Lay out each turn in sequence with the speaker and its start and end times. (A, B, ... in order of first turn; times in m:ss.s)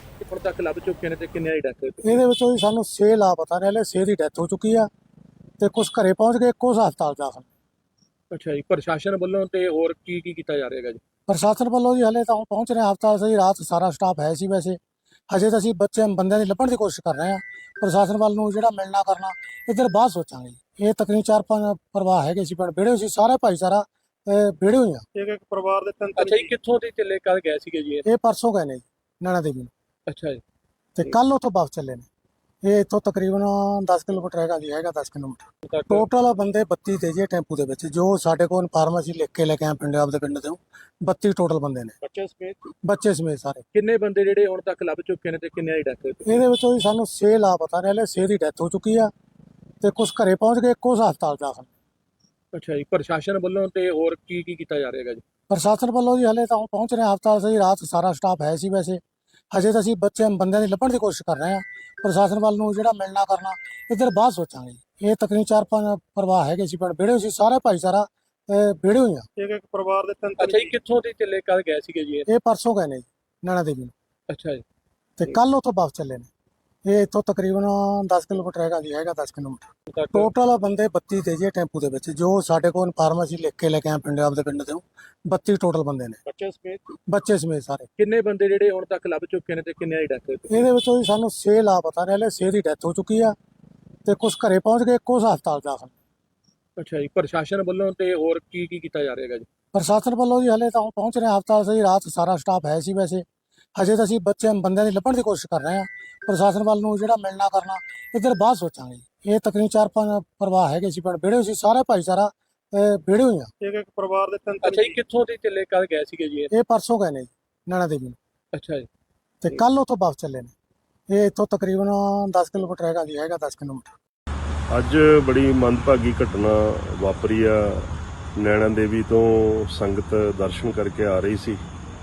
0:00.2-0:02.0 A
0:02.0-0:04.9 B
0:05.6-0:07.5 B
0:08.3-0:11.0 A
0:11.3-0:14.8 B
0:15.3-0:25.0 B
0:25.1-0:26.5 C
0:26.2-0:28.0 A
0:28.0-0:29.7 B
0:30.1-0:30.4 A
0:31.0-0:32.1 B
0:32.6-0:42.0 B
0:35.6-0:36.0 A
0:42.0-0:42.6 A
0:42.8-0:43.6 B
0:43.7-0:46.2 A
0:46.2-0:49.1 B
0:49.8-0:51.7 B
0:52.5-0:55.2 A
0:55.5-0:59.0 B
0:59.5-1:09.3 B
1:09.4-1:10.7 C
1:10.4-1:12.2 A
1:12.3-1:13.9 B
1:14.3-1:14.6 A
1:15.2-1:16.3 B
1:16.8-1:26.2 B
1:19.9-1:20.3 A
1:26.3-1:26.8 A
1:27.1-1:27.9 B
1:28.0-1:30.4 A
1:30.5-1:33.3 B
1:34.0-1:35.9 B
1:36.8-1:39.4 A
1:39.7-1:43.2 B
1:43.8-1:53.5 B
1:53.6-1:54.9 C
1:54.7-1:56.5 A
1:56.5-1:58.2 B
1:58.5-1:58.9 A
1:59.4-2:00.5 B
2:01.1-2:03.9 B
2:04.7-2:11.6 D